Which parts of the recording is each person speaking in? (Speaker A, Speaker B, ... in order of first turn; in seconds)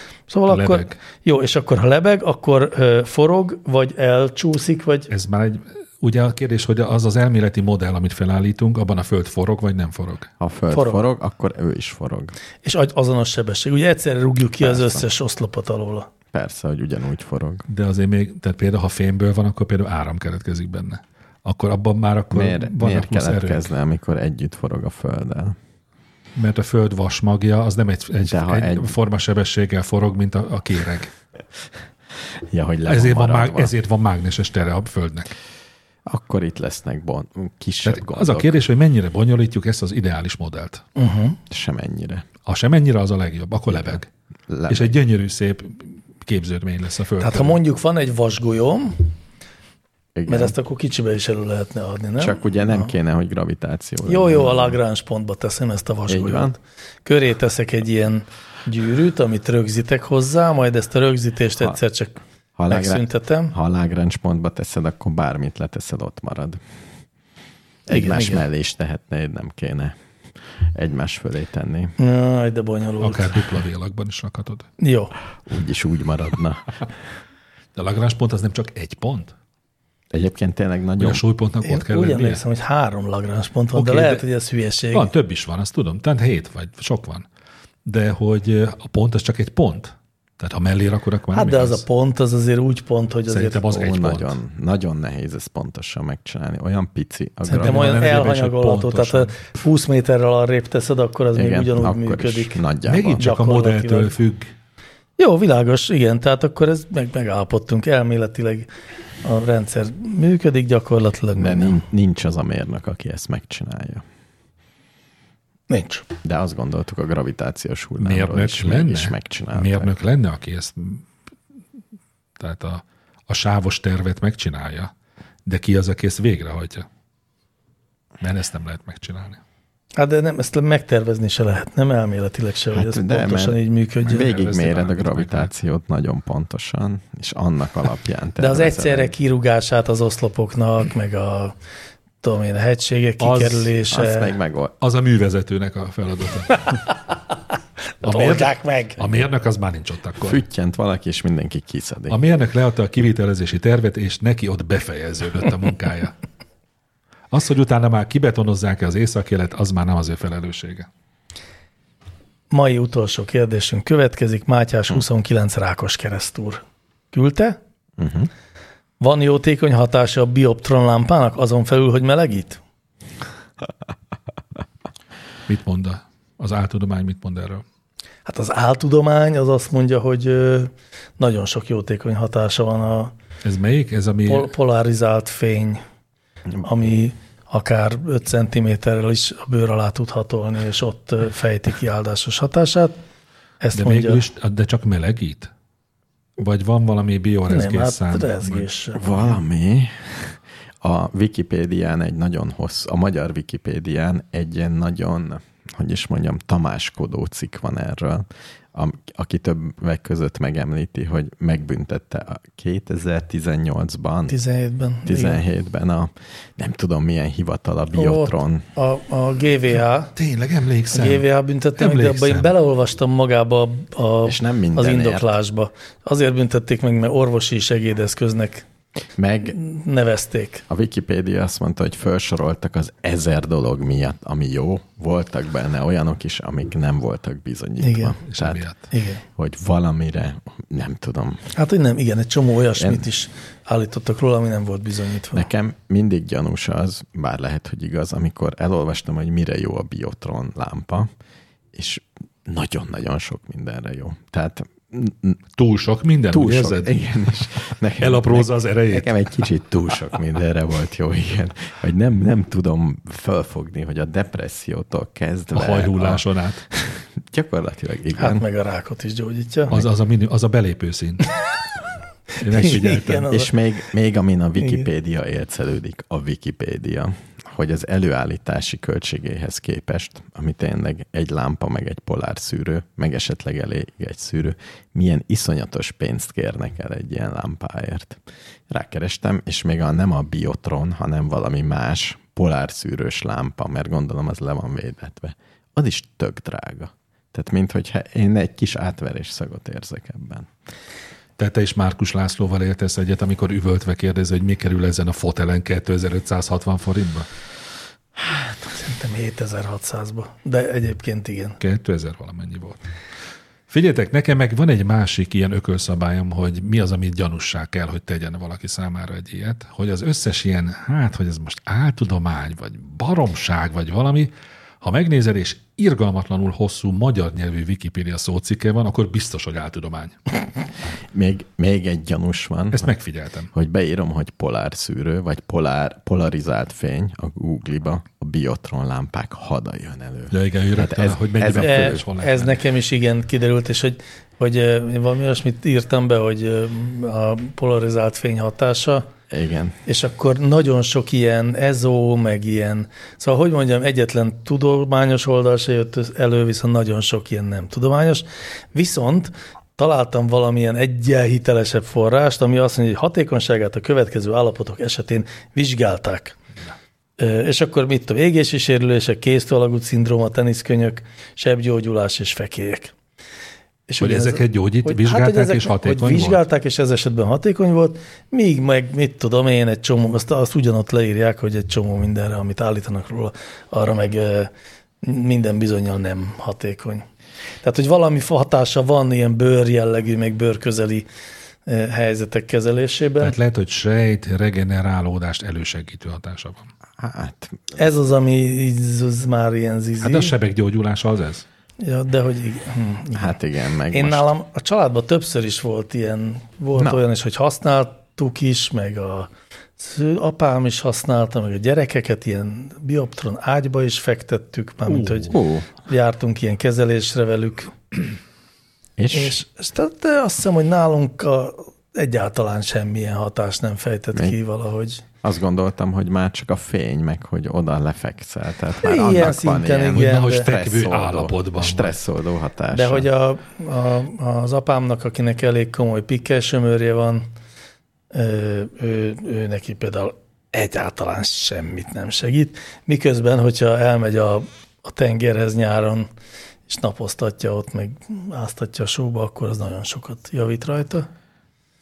Speaker A: 0.3-5.1, 10.7-11.0, 12.6-16.1, 41.0-41.4, 47.2-49.0, 50.3-52.9, 54.0-63.5, 67.9-68.4, 72.0-73.4, 74.8-75.1, 81.6-85.1, 91.3-93.6, 97.5-102.6, 103.2-104.2, 105.2-108.7, 109.2-111.8, 115.7-116.1, 130.0-134.3, 138.4-141.6, 142.2-144.3, 148.0-149.0, 162.5-167.6, 169.0-172.6, 178.3-183.1, 184.3-185.8, 186.6-193.0, 193.6-194.2, 197.5-199.3, 214.3-215.4, 217.9-220.1, 220.9-228.7, 229.5-230.7, 237.8-238.2, 238.9-239.2, 241.5-245.5, 268.2-269.7, 272.5-273.5, 308.4-311.6, 341.6-349.1, 349.9-366.4, 367.2-372.9, 373.9-384.5, 385.0-387.1, 387.6-391.1, 391.7-393.4, 397.8-400.3, 401.8-403.3, 403.9-418.0, 419.1-425.1, 428.8-430.5, 432.7-437.3, 438.1-446.1, 446.7-451.1
Speaker B: 0.5-1.0, 5.1-10.3, 17.7-23.7, 26.4-31.1, 32.9-35.3, 37.8-40.8, 42.5-44.1, 44.7-47.6, 73.0-74.7, 77.8-79.3, 81.0-82.4, 83.7-84.2, 84.9-87.3, 87.9-91.8, 93.3-94.4, 97.5-99.4, 102.9-104.5, 118.0-121.1, 122.4-124.9, 125.5-126.9, 128.2-129.4, 134.0-135.5, 143.2-143.7, 144.8-146.8, 148.0-150.4, 152.1-156.1, 157.3-160.9, 175.5-177.6, 183.4-184.5, 193.8-195.5, 196.4-198.7, 220.2-221.3, 221.8-222.5, 238.2-238.9, 255.6-257.0, 258.0-259.1, 265.5-266.6, 269.7-271.3, 272.4-273.3, 301.4-307.3, 311.6-312.8, 313.7-330.2, 332.7-333.5, 340.3-342.6, 374.0-376.4, 393.2-396.7, 400.0-401.4, 414.9-415.3, 429.9-432.0
Speaker C: 10.4-12.3, 14.6-15.1, 16.3-17.7, 22.3-25.6, 28.2-29.0, 32.5-33.7, 36.1-38.6, 41.5-42.3, 43.7-45.0, 50.1-50.5, 52.2-54.8, 56.1-56.6, 62.6-66.6, 67.9-72.0, 75.5-76.9, 80.1-81.2, 93.7-98.3, 101.3-103.3, 111.4-114.0, 116.2-119.9, 132.7-139.1, 143.9-144.8, 150.2-152.2, 168.0-168.3, 198.9-214.4, 215.1-218.7, 224.2-225.3, 229.2-229.6, 230.7-238.7, 239.4-241.5, 242.8-243.1, 245.3-251.1, 251.7-255.4, 256.3-268.5, 272.6-300.5, 331.1-332.9, 333.5-342.0, 349.3-349.8, 397.0-397.7, 403.1-404.3, 406.8-407.0, 415.3-415.7, 419.0-419.4, 425.2-433.1